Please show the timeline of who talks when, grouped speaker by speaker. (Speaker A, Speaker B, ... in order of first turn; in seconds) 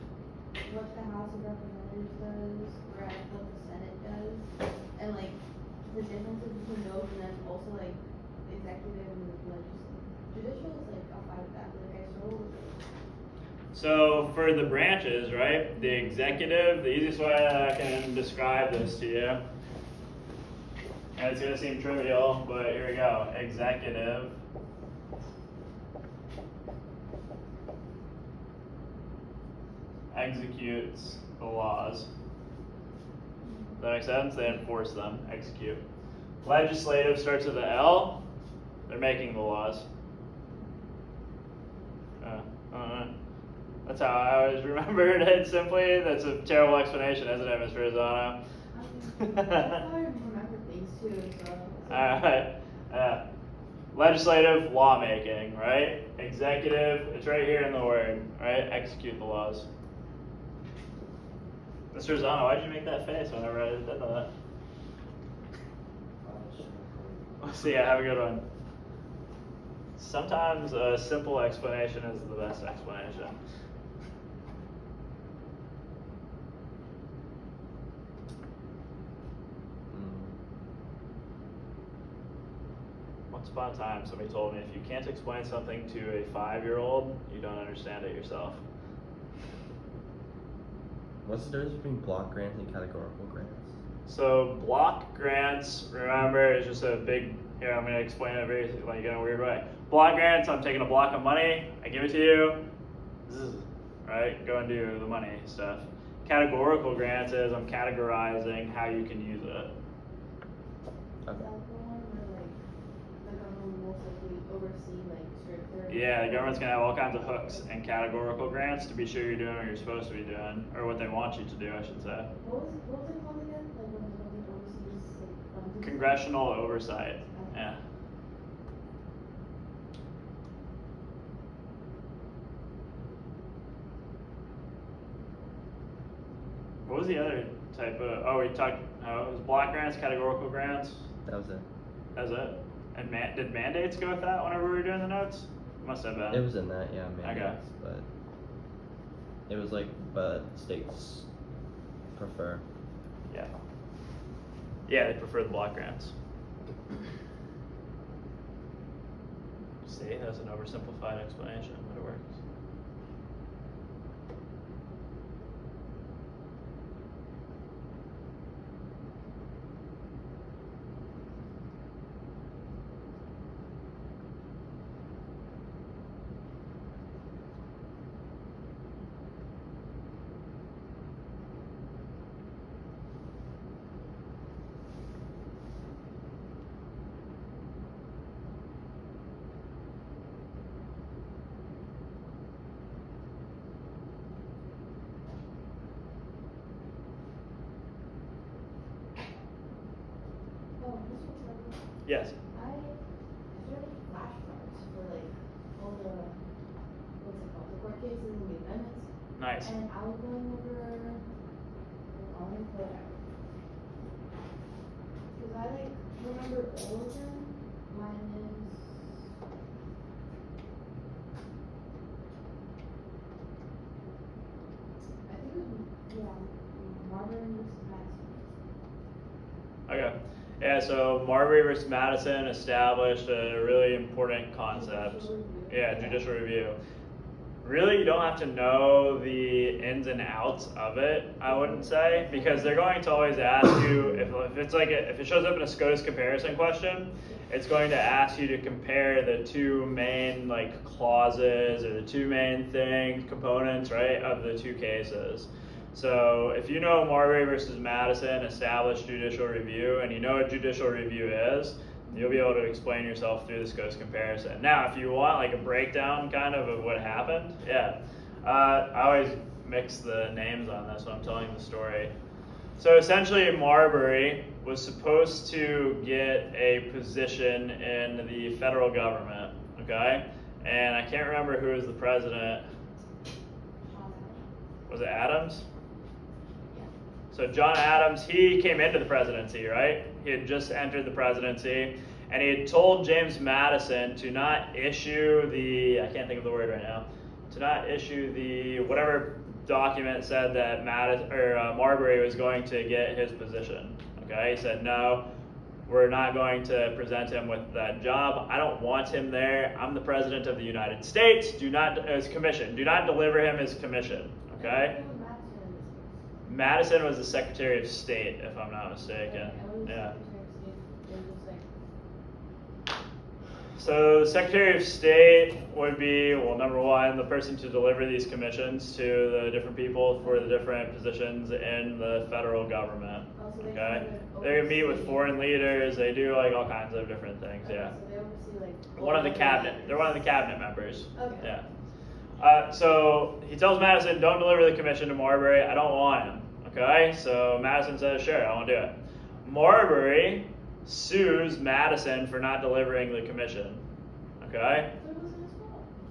Speaker A: 0.6-12.8, 15.8-16.4, 33.4-33.8, 48.7-52.1, 111.3-112.6, 113.2-117.6, 122.4-126.5, 127.2-127.5, 200.8-201.9, 202.5-203.0, 203.5-206.3, 207.2-209.1, 209.6-211.2, 212.1-213.2, 215.3-219.1, 225.3-228.5, 234.7-236.2, 241.4-242.8, 283.9-284.4, 314.6-316.1, 319.3-321.6, 330.2-330.5, 333.4-335.4, 337.6-340.2, 341.1-341.5, 355.0-355.9
Speaker B: 13.7-19.4, 21.2-24.3, 30.1-32.1, 33.8-35.8, 36.4-38.2, 38.9-39.9, 42.2-43.1, 43.9-48.4, 49.2-49.8, 51.9-53.2, 53.9-59.7, 61.9-64.3, 67.4-68.4, 70.0-73.4, 83.3-88.6, 94.1-102.6, 103.3-109.7, 115.9-122.3, 125.8-127.8, 136.9-141.0, 142.1-146.4, 147.2-147.6, 154.9-156.1, 159.9-162.4, 202.1-202.3, 209.4-209.7, 229.9-236.8, 237.6-272.1, 272.8-282.6, 284.9-285.6, 287.3-305.2, 305.9-314.9, 316.5-320.1, 323.8-337.9, 339.0-341.6, 342.4-348.9, 349.4-353.8, 354.4-354.9
Speaker C: 66.2-67.7, 79.9-80.3, 91.2-93.8, 141.2-141.6, 146.3-148.1, 149.5-151.3, 152.1-152.6